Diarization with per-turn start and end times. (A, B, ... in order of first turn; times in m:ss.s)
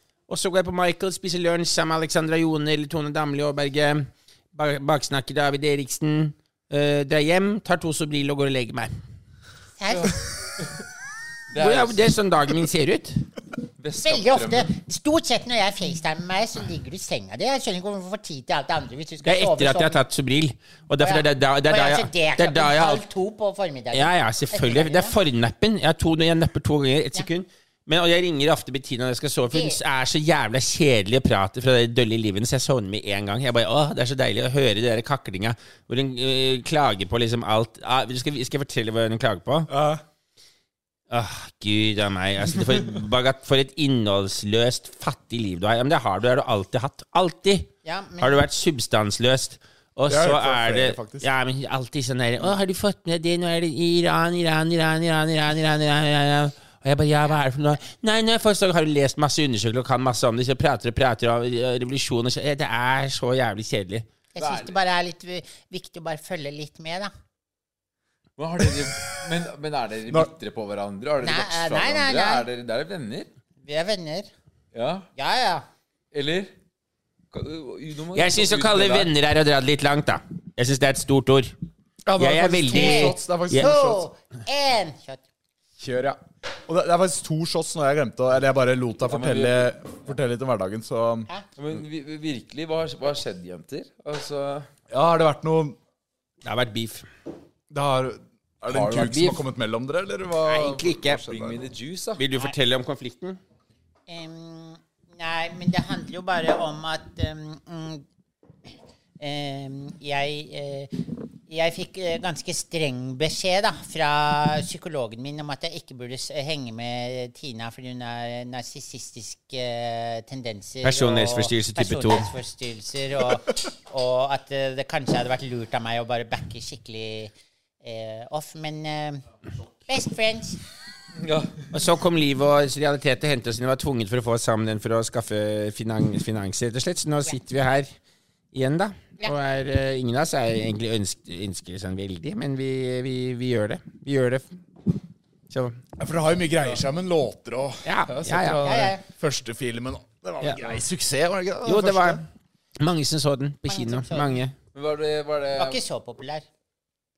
0:00.3-0:08.9 A
0:09.8-0:10.2 B
0:09.9-0:10.8 C
0:11.5-0:12.1 C
0:11.6-0:13.2 A
0:13.8-0:14.7 C
0:14.0-0:20.0 B
0:19.2-0:23.0 A
0:21.0-0:25.1 B
0:23.9-0:39.7 A
0:29.5-0:29.8 B
0:39.7-0:40.0 D
0:41.1-1:04.0 A
0:47.8-0:48.4 B
0:50.1-0:51.3 D
1:04.3-1:07.1 B
1:04.4-1:04.8 C
1:08.4-1:13.3 C
1:11.2-1:12.5 B
1:13.6-1:14.3 B
1:14.7-1:15.1 C
1:15.2-1:15.6 B
1:16.1-1:16.5 C
1:17.3-1:19.1 C
1:18.1-1:21.5 A
1:22.0-1:24.1 D
1:22.2-1:23.7 A
1:22.7-1:25.2 B
1:25.8-1:31.3 D
1:29.1-1:29.7 C
1:31.6-1:34.7 C
1:34.9-1:35.8 D
1:36.4-1:37.1 A
1:37.7-1:41.6 D
1:38.7-1:39.4 C
1:40.4-1:41.2 A
1:41.3-1:42.2 C
1:42.2-1:43.4 A
1:44.1-1:48.0 B
1:49.2-2:07.3 B
2:00.8-2:02.3 A
2:07.8-2:09.2 B
2:09.9-2:10.6 B
2:11.2-2:11.6 C
2:11.7-2:17.9 A
2:18.5-2:24.5 A
2:25.5-2:25.8 A
2:26.0-2:32.2 D
2:27.8-2:28.7 A
2:28.6-2:29.0 B
2:31.6-2:32.2 A
2:32.8-2:34.5 A
2:33.7-2:34.4 B
2:34.7-2:35.8 C
2:35.6-2:36.4 B